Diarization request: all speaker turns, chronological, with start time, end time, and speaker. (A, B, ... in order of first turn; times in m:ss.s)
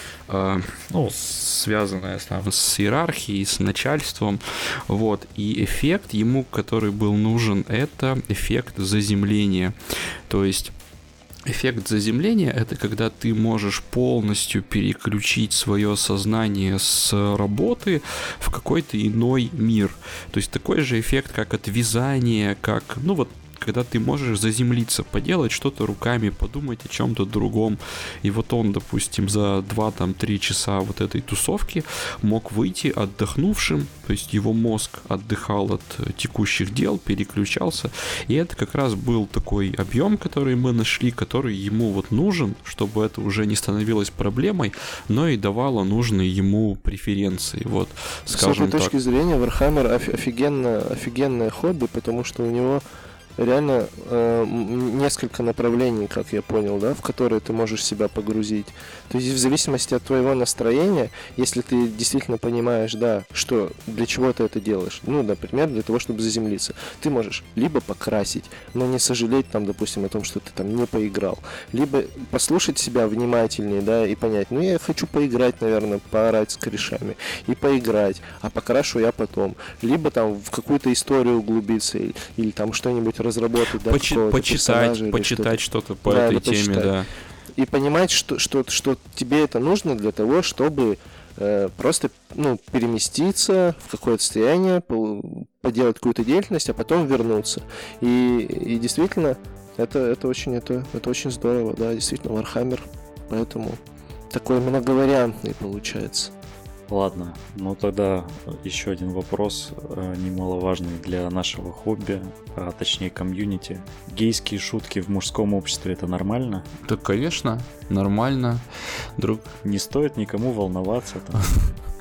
0:00.3-0:09.8 A
0:10.3-0:10.7 A
0:11.5-0:48.9 A
0:48.3-0:52.8 B
0:53.4-1:26.9 B
1:23.8-1:27.1 A
1:27.6-1:46.3 B
1:46.9-1:56.7 C
1:56.8-1:58.6 A
1:59.2-1:59.5 A
1:59.6-2:01.6 C